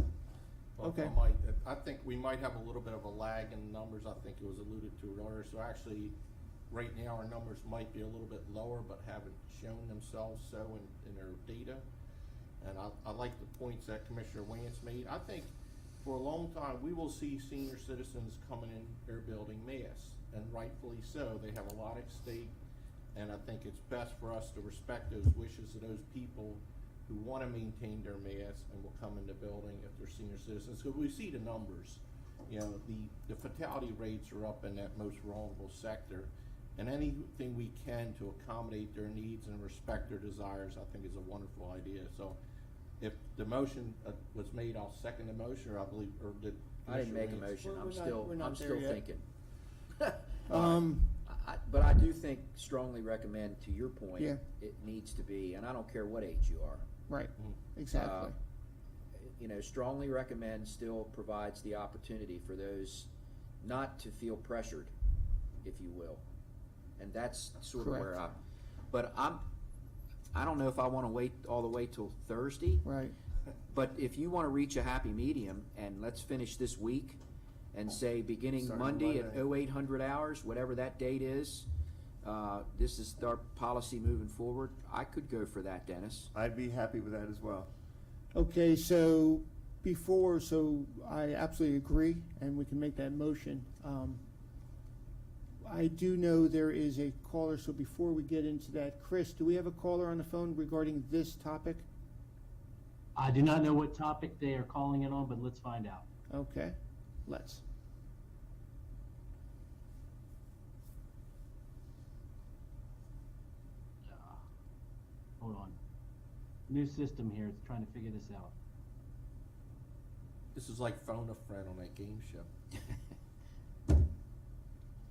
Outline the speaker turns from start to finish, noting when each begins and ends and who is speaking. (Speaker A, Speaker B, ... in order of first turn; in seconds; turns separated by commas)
Speaker A: 0.8-6.2, Speaker B: 0.8-1.1, Speaker A: 6.7-11.8, Speaker A: 12.6-22.6, Speaker A: 23.1-42.4, Speaker A: 43.0-47.6, Speaker C: 46.9-49.2, Speaker B: 47.4-49.0, Speaker C: 50.0-56.8, Speaker B: 50.5-51.2, Speaker B: 54.2-54.4, Speaker B: 57.1-58.3, Speaker C: 57.9-58.3, Speaker C: 59.1-63.1, Speaker C: 63.6-64.9, Speaker C: 65.6-66.2, Speaker C: 67.0-68.4, Speaker B: 67.8-68.1, Speaker C: 68.9-69.5, Speaker C: 70.3-72.8, Speaker B: 72.8-73.1, Speaker C: 73.7-77.2, Speaker C: 77.7-81.7, Speaker D: 78.5-79.4, Speaker C: 82.2-86.3, Speaker D: 86.3-87.7, Speaker B: 88.3-94.2, Speaker B: 95.6-101.8, Speaker E: 103.2-106.0, Speaker B: 106.3-107.6, Speaker E: 114.1-114.4, Speaker E: 115.4-115.8, Speaker E: 116.7-118.5, Speaker A: 120.5-122.5